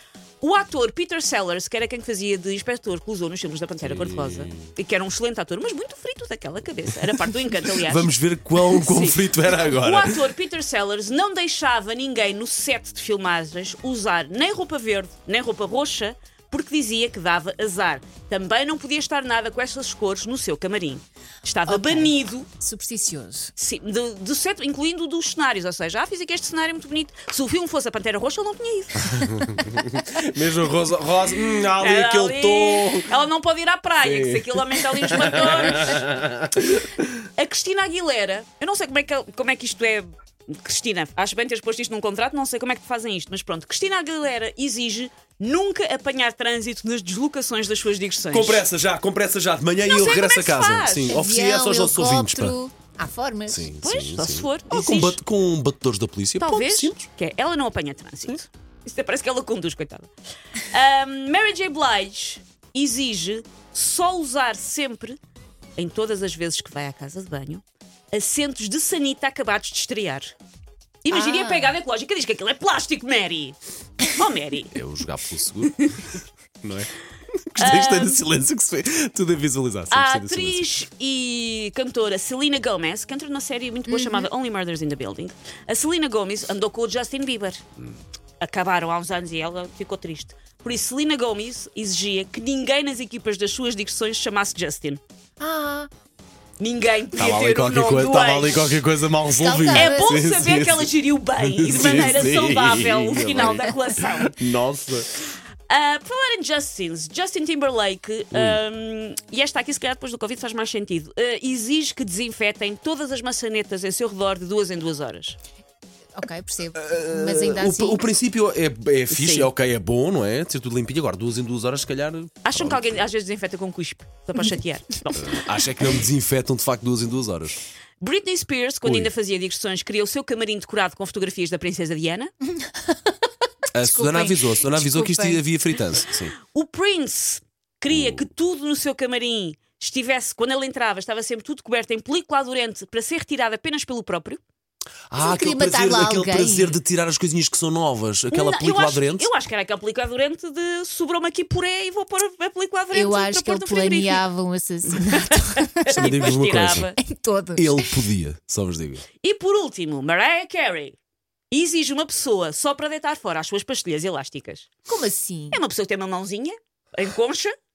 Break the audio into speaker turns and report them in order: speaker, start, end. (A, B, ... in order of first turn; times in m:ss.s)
0:00.4-0:22.5 A
0:03.8-0:04.7 B
0:07.1-0:10.3 B
0:21.6-0:23.5 C
0:23.6-0:29.1 A
0:29.0-0:33.1 B
0:31.8-0:36.1 A
0:34.0-0:37.1 B
0:37.4-0:48.7 A
0:48.3-0:52.6 B
0:49.8-0:51.2 A
0:51.1-0:53.7 C
0:53.5-0:57.1 B
0:53.8-0:55.2 A
0:56.4-1:00.1 A
1:00.6-1:05.2 A
1:05.8-1:10.3 A
1:11.0-1:14.8 A
1:11.1-1:11.8 C
1:14.7-1:15.8 B
1:15.6-1:16.1 A
1:16.6-1:20.6 B
1:17.6-1:18.2 A
1:19.9-1:27.6 A
1:23.9-1:24.3 C
1:28.4-1:35.0 A
1:35.4-1:35.9 C
1:36.6-1:38.8 A
1:37.1-1:45.1 B
1:39.3-1:40.2 C
1:39.7-1:44.4 A
1:45.7-1:55.4 A
1:48.3-1:48.6 B
1:56.1-1:58.1 C
1:56.8-2:03.1 B
1:59.1-1:59.5 A
2:02.4-2:05.3 A
2:05.1-2:07.6 B
2:08.0-2:12.3 A
2:08.8-2:09.1 B
2:12.5-2:13.2 C
2:13.7-2:16.3 B
2:13.8-2:15.4 C
2:16.4-2:24.4 A
2:17.9-2:18.2 B
2:25.1-2:29.3 B
2:25.2-2:26.8 C
2:28.3-2:34.2 A
2:32.9-2:36.0 C
2:35.0-2:37.0 A
2:35.9-2:36.9 B
2:37.0-2:38.0 C
2:37.6-2:39.0 B
2:39.2-2:41.0 A
2:41.5-2:44.7 A
2:44.8-2:45.6 C
2:45.5-2:47.5 A